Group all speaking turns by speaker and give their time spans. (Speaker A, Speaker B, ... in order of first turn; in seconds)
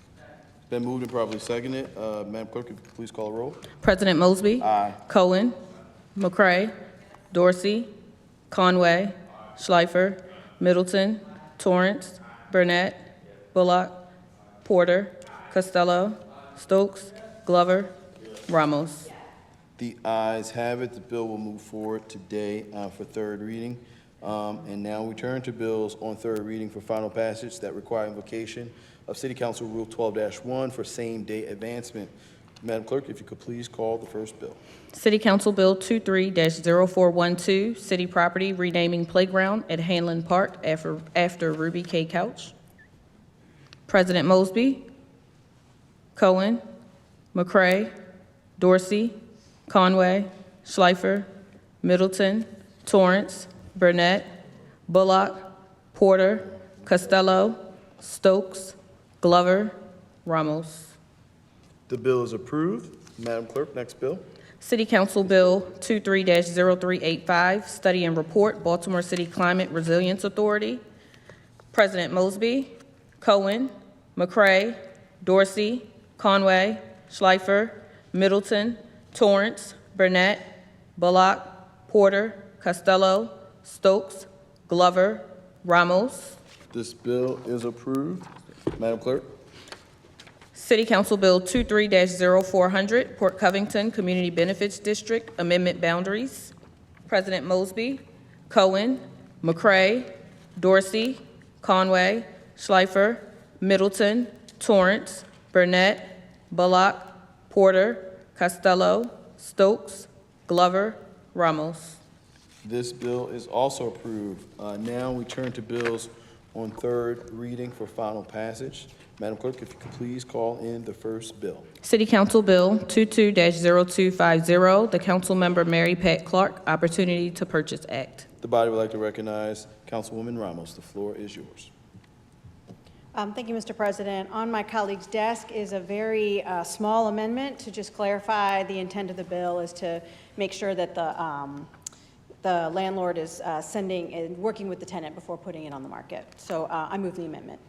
Speaker A: 0.7-3.6, 4.6-5.0, 19.8-34.6, 61.9-64.2, 86.7-89.3, 112.6-121.7, 128.4-131.7
Speaker B: 3.8-5.6, 6.1-6.7, 7.3-7.9, 8.5-14.1, 14.6-17.9, 18.4-19.1, 34.9-42.5, 43.9-44.8, 46.1-46.6, 47.3-47.9, 48.6-49.1, 49.7-51.3, 51.8-54.3, 54.9-60.9, 64.6-70.8, 71.7-80.5, 81.0-86.4, 90.5-96.5, 97.1-112.0, 121.8-128.3
Speaker C: 133.1-141.7, 142.4-147.6